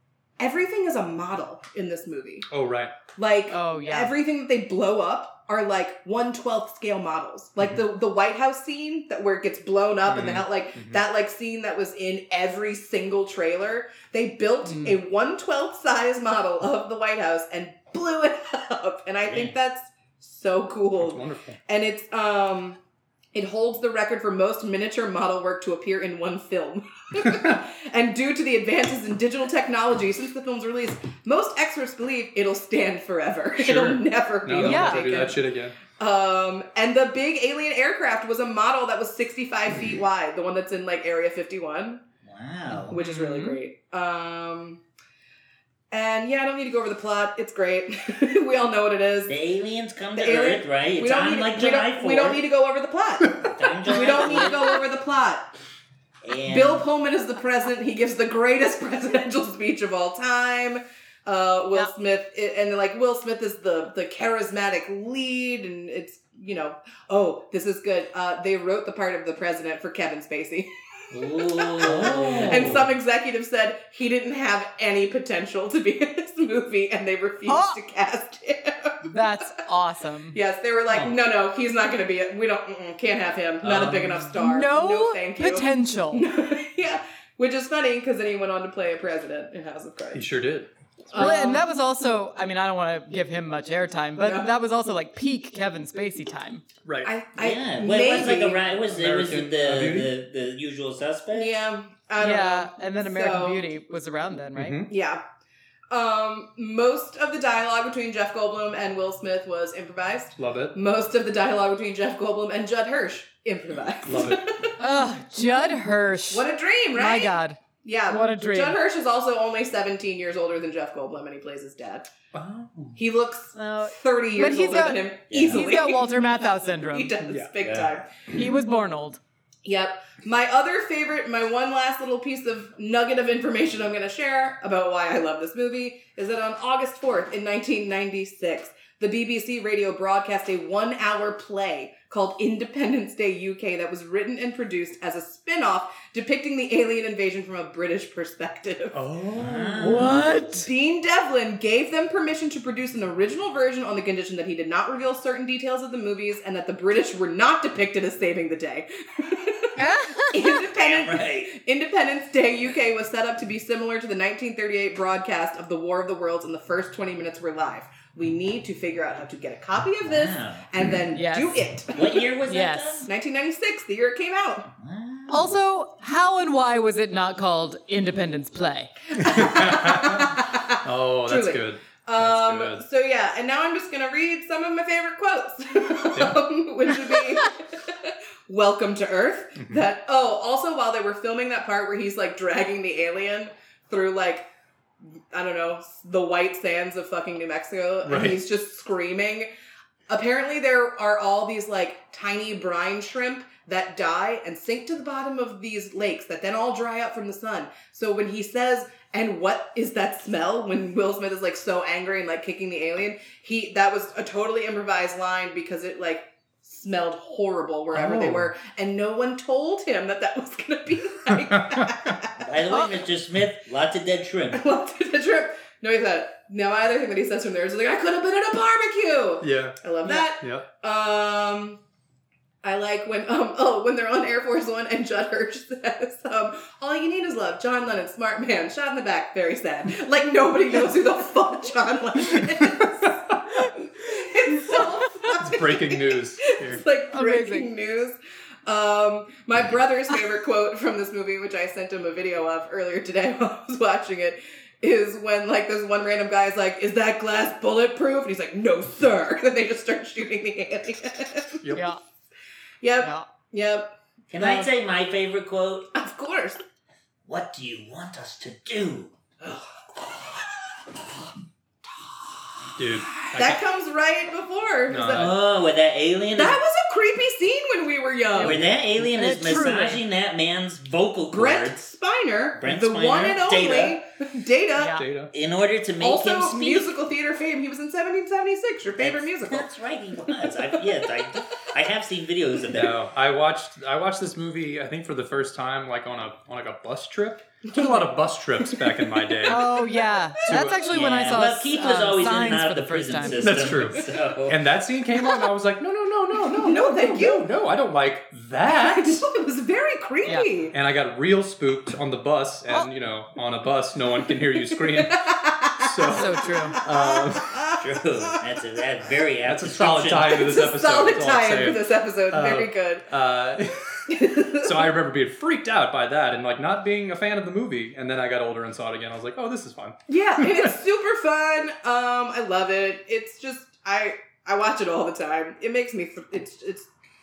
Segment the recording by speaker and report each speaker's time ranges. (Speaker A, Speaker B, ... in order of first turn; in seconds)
Speaker A: 0.4-2.5, 3.2-22.8, 23.3-35.4, 36.0-42.0, 42.9-44.8, 45.9-49.3, 50.2-55.5, 56.5-79.2, 80.3-90.3, 91.1-91.6, 94.2-94.5, 97.0-98.7, 101.3-103.7, 104.9-105.2, 105.9-114.7, 116.3-122.1, 123.0-126.2, 126.8-128.1, 129.7-149.1, 150.0-159.7, 160.3-172.3, 173.1-174.7, 179.2-194.5, 195.3-199.5, 200.1-222.5, 224.5-231.8, 232.6-261.8, 262.8-264.7, 265.9-266.6, 269.4-269.7, 273.3-275.3, 276.4-278.6, 281.3-285.0, 286.0-289.7, 290.3-290.8, 297.7-298.1, 298.6-299.7, 303.4-303.8, 306.5-307.5, 308.7-310.8, 314.7-317.8, 320.3-323.1, 324.1-324.9, 330.1-336.9
Speaker B: 2.5-2.9, 10.1-11.0, 21.0-21.6, 33.6-35.8, 71.8-72.8, 80.9-81.1, 83.6-84.3, 90.1-90.7, 96.8-97.1, 98.4-100.1, 104.5-104.9, 110.4-110.8, 114.0-114.5, 122.3-123.0, 127.3-127.5, 148.9-150.2, 179.2-182.8, 186.1-186.4, 189.6-189.8, 198.1-198.4, 217.9-218.5, 221.3-222.2, 229.4-230.7, 245.4-246.8, 261.6-261.9, 272.8-273.6, 274.9-275.3, 284.9-285.3, 292.7-299.7, 300.4-300.9, 303.4-309.3, 310.7-317.6, 319.4-324.0, 324.6-330.7
Speaker C: 3.5-4.1, 14.7-15.0, 34.6-35.1, 42.9-43.6, 54.1-54.5, 77.5-77.8, 79.0-80.4, 84.3-86.3, 91.1-96.6, 102.2-104.8, 114.8-118.8, 123.5-127.2, 128.3-129.2, 149.8-150.7, 159.8-160.6, 171.1-171.7, 172.5-173.1, 175.3-178.9, 247.1-247.7, 261.7-262.0, 263.0-263.3, 278.4-280.0, 284.8-285.1, 299.5-303.5, 310.2-310.5, 316.1-316.8
Speaker D: 19.2-19.6, 42.3-43.0, 49.3-52.4, 53.4-54.8, 56.2-56.9, 71.1-72.9, 97.4-101.5, 125.3-125.7, 127.6-127.9, 149.4-150.3, 160.7-161.5, 170.0-170.7, 171.9-173.1, 174.8-175.6, 222.4-224.6, 264.3-265.9, 267.3-269.1, 275.1-276.6, 278.4-281.8, 282.6-284.0, 285.3-286.9, 289.0-293.0, 300.8-304.6, 317.8-320.5